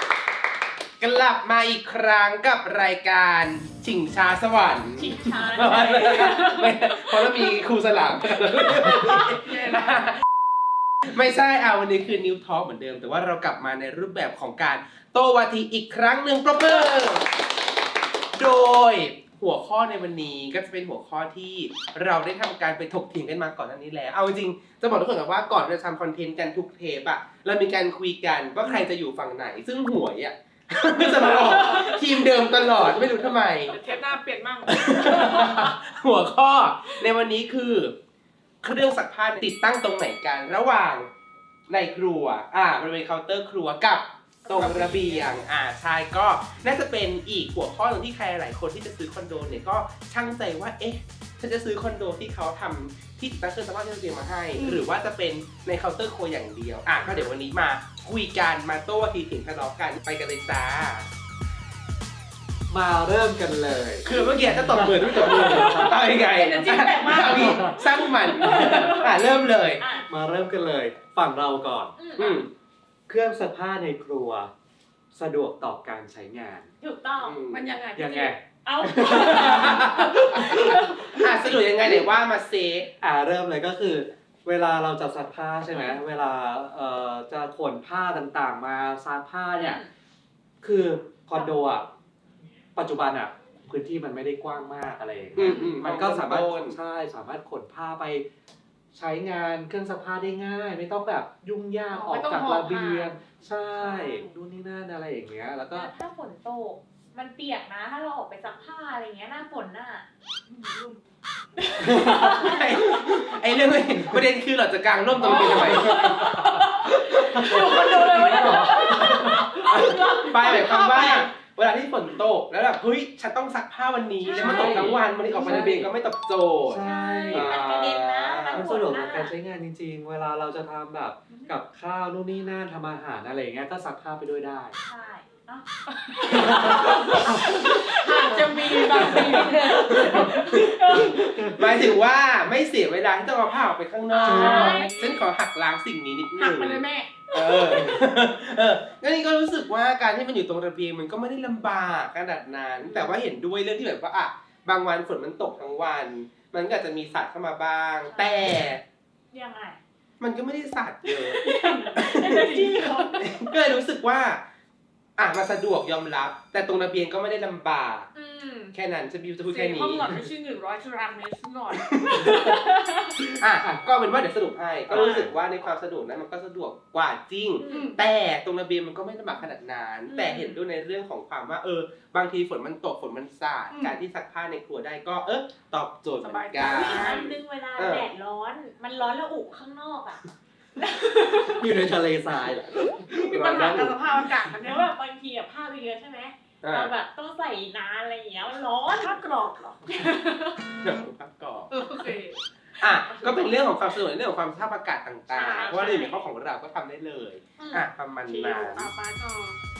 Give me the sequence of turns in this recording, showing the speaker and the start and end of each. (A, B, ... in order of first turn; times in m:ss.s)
0:01.0-0:10.2 A
0:05.0-0:07.6 B
0:08.7-0:10.0 C
0:11.0-0:17.3 A
0:18.3-0:33.8 A
0:31.0-0:32.9 C
0:33.7-0:35.7 C
0:34.7-0:37.9 A
0:38.6-0:41.1 A
0:41.7-1:01.1 A
0:44.4-0:45.4 B
0:44.5-0:45.1 C
0:54.6-0:54.8 C
1:02.7-1:05.9 D
1:04.0-1:09.8 A
1:05.1-1:09.1 C
1:07.2-1:07.8 D
1:09.8-1:10.1 B
1:10.1-1:11.9 D
1:12.0-1:12.4 B
1:12.2-1:12.5 A
1:13.1-1:14.5 D
1:15.1-1:16.7 D
1:16.8-1:17.4 B
1:17.2-1:17.6 A
1:17.5-1:18.3 C
1:17.9-1:20.9 D
1:18.6-1:21.6 B
1:19.4-1:20.2 A
1:21.1-1:22.9 A
1:23.0-1:29.8 D
1:25.7-1:26.0 B
1:29.5-1:29.9 B
1:30.6-1:31.9 D
1:32.8-1:38.2 D
1:35.4-1:36.8 A
1:35.4-1:35.7 C
1:38.9-1:45.9 D
1:41.9-1:43.1 C
1:43.8-1:44.4 B
1:45.7-1:50.0 B
1:50.5-1:51.0 C
1:51.6-1:52.6 B
1:51.8-1:52.3 D
1:52.3-1:56.1 A
1:55.1-1:59.9 D
1:55.2-2:01.1 C
1:55.4-1:56.3 B
1:57.1-2:01.3 B
2:00.2-2:08.7 A
2:04.2-2:05.7 B
2:04.3-2:05.9 D
2:06.6-2:07.6 D
2:06.8-2:09.3 B
2:08.5-2:14.8 D
2:14.8-2:15.6 B
2:16.0-2:21.8 C
2:16.2-2:17.4 B
2:16.3-2:17.6 D
2:18.3-2:20.3 D
2:18.9-2:19.7 B
2:19.0-2:38.8 A
2:20.9-2:21.6 D
2:24.1-2:25.2 C
2:24.2-2:25.0 B
2:24.2-2:24.8 D
2:26.4-2:28.0 C
2:38.0-2:38.7 B
2:39.3-2:39.8 B
2:40.2-2:41.4 A
2:41.4-2:43.3 B
2:41.4-2:43.3 C
2:41.9-2:42.5 A
2:43.2-2:44.4 A
2:45.2-2:48.1 A
2:48.1-2:48.7 B
2:48.7-2:50.1 A
2:49.4-2:52.6 C
2:51.7-2:52.4 A
2:52.2-2:53.1 B
2:53.4-3:08.1 A
2:54.9-2:55.3 D
2:55.0-2:55.2 B
2:57.6-2:58.0 B
2:57.7-2:58.0 C
3:00.1-3:00.6 B
3:03.7-3:04.0 C
3:06.2-3:07.2 C
3:06.6-3:11.7 B
3:11.5-3:14.0 D
3:13.2-3:13.9 A
3:13.3-3:14.9 C
3:14.6-3:19.2 B
3:16.6-3:16.9 A
3:19.0-3:20.5 C
3:20.8-3:21.7 A
3:21.7-3:23.8 C
3:21.8-3:22.1 B
3:22.8-3:28.9 A
3:25.3-3:26.2 C
3:25.3-3:26.2 B
3:27.6-3:27.9 B
3:28.3-3:29.6 C